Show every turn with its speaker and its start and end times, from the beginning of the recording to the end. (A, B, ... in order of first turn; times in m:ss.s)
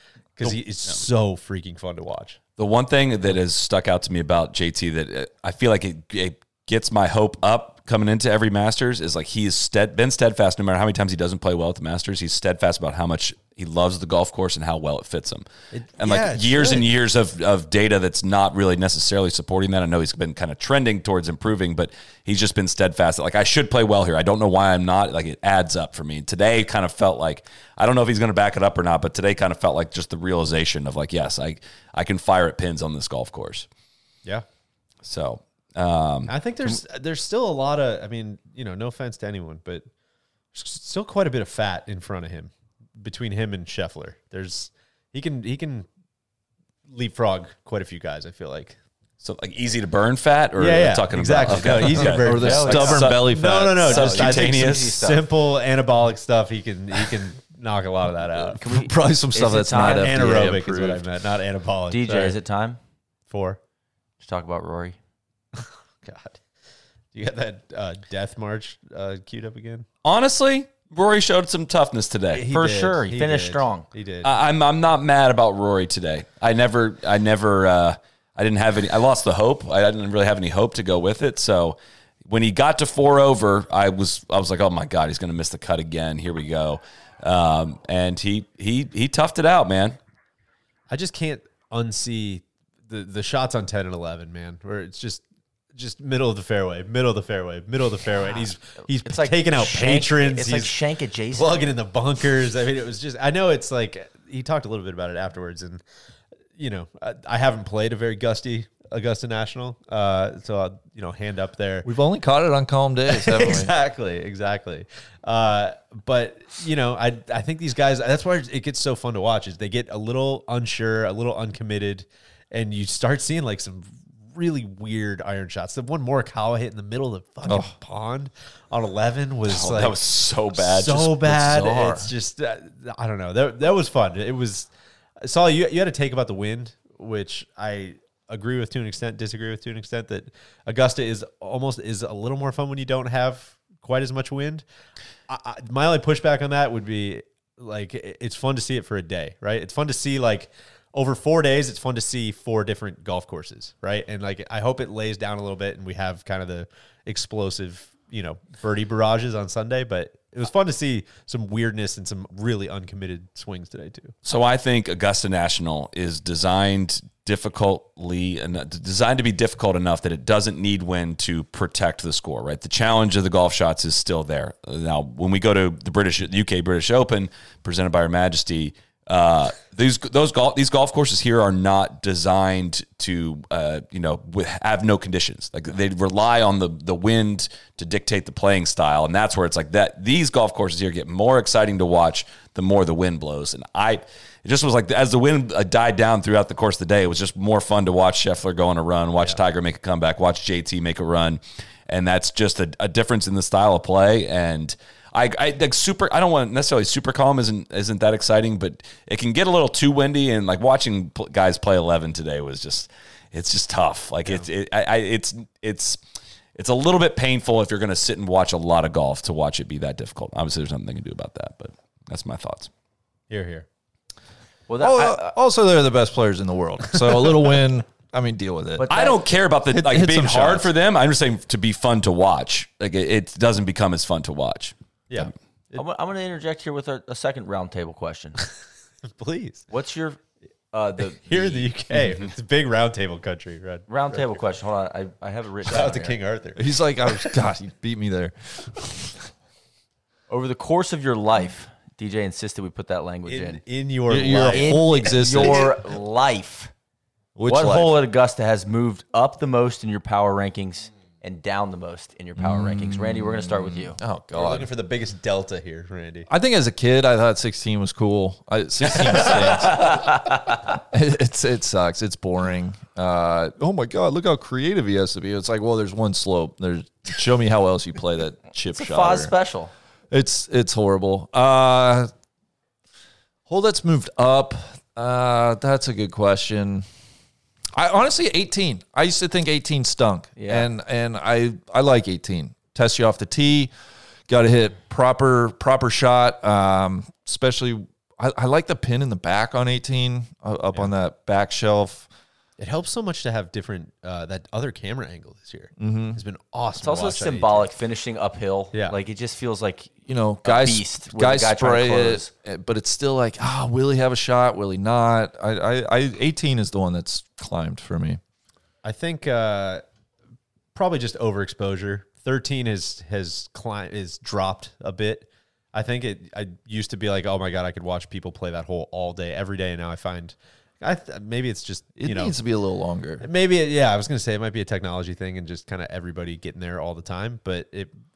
0:00.4-0:02.4 A
0:02.6-0:15.4 B
0:15.7-0:16.9 A
0:16.0-0:33.7 B
0:35.0-0:36.7 B
0:36.2-0:39.9 A
0:40.5-0:45.9 A
0:46.9-0:48.8 A
0:49.2-0:55.0 B
0:50.6-0:58.6 A
0:51.9-0:53.9 C
0:52.3-0:53.0 D
0:53.9-0:55.2 D
0:58.5-1:00.4 D
0:58.6-1:01.0 C
0:59.7-1:02.4 A
1:01.9-1:02.8 D
1:03.3-1:03.6 A
1:04.2-1:05.0 D
1:05.6-1:06.4 A
1:07.1-1:09.8 A
1:10.0-1:12.4 B
1:12.3-1:14.3 A
1:12.5-1:13.9 D
1:14.2-1:21.8 B
1:22.3-1:30.0 B
1:30.9-1:40.7 A
1:39.0-1:41.7 D
1:41.3-1:45.8 A
1:46.6-1:51.9 A
1:51.8-1:53.7 C
1:53.1-2:10.0 A
2:07.4-2:07.7 C
2:09.5-2:11.2 B
2:10.5-2:24.6 A
2:11.2-2:12.1 C
2:25.3-2:44.1 A
2:44.2-3:36.0 B
3:36.6-3:42.7 B
3:43.3-3:43.6 A
3:44.7-3:45.3 D
3:44.8-3:48.9 C
3:47.0-3:47.3 A
3:48.8-3:49.2 D
3:48.9-3:55.3 B
3:49.7-3:50.7 C
3:55.1-3:55.8 A
3:55.7-3:58.4 D
3:59.1-3:59.6 A
3:59.7-4:00.2 D
4:00.7-4:01.7 D
4:01.2-4:04.4 A
4:03.9-4:06.2 D
4:05.6-4:07.3 A
4:06.6-4:09.2 C
4:10.3-4:13.6 D
4:13.3-4:15.7 A
4:14.1-4:15.7 C
4:14.4-4:16.7 D
4:17.4-4:18.0 C
4:17.5-4:24.0 D
4:22.4-4:24.7 C
4:24.3-4:26.3 A
4:26.3-4:30.4 C
4:29.0-4:29.7 A
4:29.6-4:30.6 D
4:30.9-4:39.3 C
4:38.7-4:39.7 D
4:40.1-4:42.1 C
4:43.5-4:46.8 C
4:47.7-4:53.7 C
4:50.4-4:50.7 D
4:54.3-5:02.1 C
5:02.6-5:07.7 A
5:05.8-5:06.2 C
5:06.8-5:09.9 D
5:10.1-5:18.2 C
5:10.4-5:12.3 D
5:18.8-5:19.8 A
5:20.7-5:32.4 A
5:32.0-5:33.3 C
5:33.2-5:37.9 A